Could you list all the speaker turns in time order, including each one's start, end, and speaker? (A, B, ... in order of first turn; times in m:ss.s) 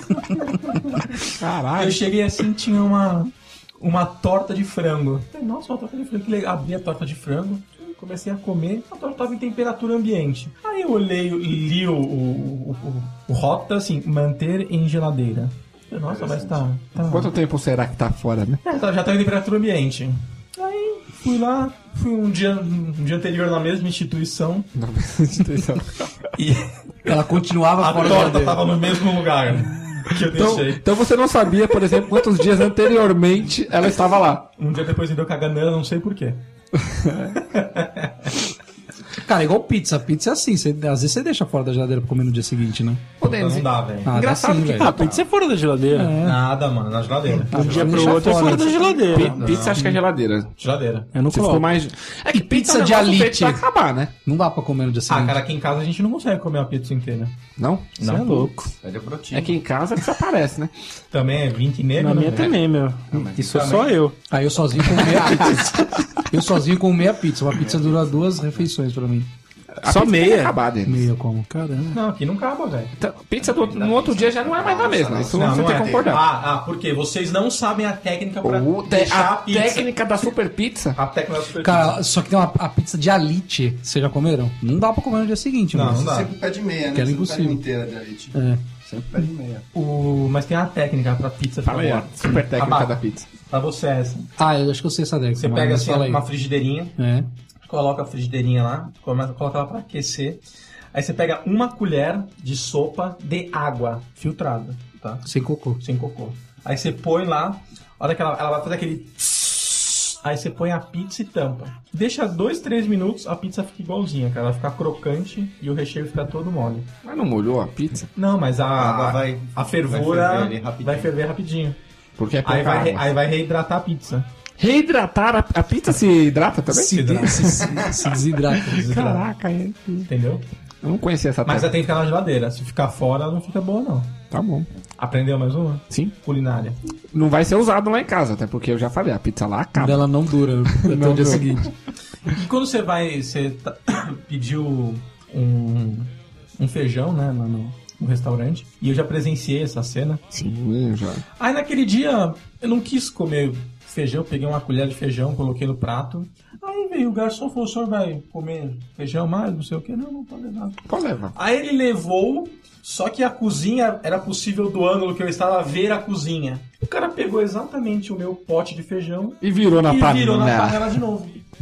0:00.3-0:17.3 A
0:01.3-0:02.0 B
0:16.1-0:16.6 C
0:17.0-0:18.6 B
0:18.6-0:24.7 A
0:24.7-0:26.1 B
0:26.4-0:26.8 A
0:27.0-0:28.7 D
0:27.8-0:30.8 A
0:30.2-0:34.5 B
0:34.6-0:36.4 A
0:36.8-0:37.4 B
0:37.4-0:38.3 A
0:39.2-0:43.1 D
0:43.2-0:45.2 B
0:43.2-0:44.2 A
0:44.0-0:44.9 D
0:44.8-0:46.2 E
0:45.9-0:46.4 D
0:46.2-0:48.0 A
0:47.5-0:48.7 D
0:47.5-0:49.4 E
0:47.6-0:50.5 B
0:48.7-0:50.0 A
0:50.6-0:51.1 A
0:51.1-0:51.8 E
0:51.3-0:54.1 B
0:52.3-0:53.6 D
0:54.2-0:55.4 D
0:55.1-0:57.4 A
0:57.6-0:58.0 B
0:58.0-0:58.5 A
0:58.0-0:58.7 E
0:58.8-0:59.6 C
0:59.3-1:00.7 B
1:01.1-1:02.5 A
1:02.0-1:04.2 E
1:03.1-1:03.8 C
1:03.4-1:04.0 A
1:04.3-1:09.3 D
1:07.5-1:08.3 C
1:09.8-1:11.1 B
1:09.8-1:10.6 E
1:10.8-1:11.5 D
1:11.5-1:12.0 E
1:11.9-1:12.9 A
1:13.0-1:16.2 B
1:13.4-1:16.1 C
1:15.3-1:19.9 A
1:18.4-1:21.0 B
1:21.0-1:22.0 A
1:21.6-1:26.0 D
1:25.7-1:26.3 A
1:25.9-1:29.6 C
1:26.9-1:27.6 D
1:28.3-1:28.6 D
1:29.7-1:34.3 A
1:31.6-1:33.3 B
1:34.4-1:36.2 D
1:35.4-1:37.0 A
1:37.0-1:37.3 D
1:37.6-1:40.4 A
1:40.9-1:45.2 A
1:45.2-1:45.8 D
1:45.8-1:56.9 A
1:57.0-1:58.1 B
1:58.2-2:01.8 A
1:58.8-2:01.1 C
2:02.2-2:03.1 B
2:02.4-2:04.3 A
2:04.6-2:07.6 B
2:06.7-2:08.9 D
2:06.9-2:07.8 A
2:08.6-2:10.1 B
2:08.7-2:09.3 A
2:10.1-2:10.5 A
2:10.8-2:11.7 B
2:11.4-2:14.2 A
2:14.3-2:14.7 B
2:15.0-2:16.8 A
2:17.1-2:20.1 B
2:19.8-2:21.7 D
2:20.7-2:21.6 B
2:22.3-2:30.2 A
2:30.3-2:31.2 B
2:31.4-2:40.8 A
2:40.9-2:41.3 B
2:41.3-2:51.4 A
2:49.4-2:50.9 B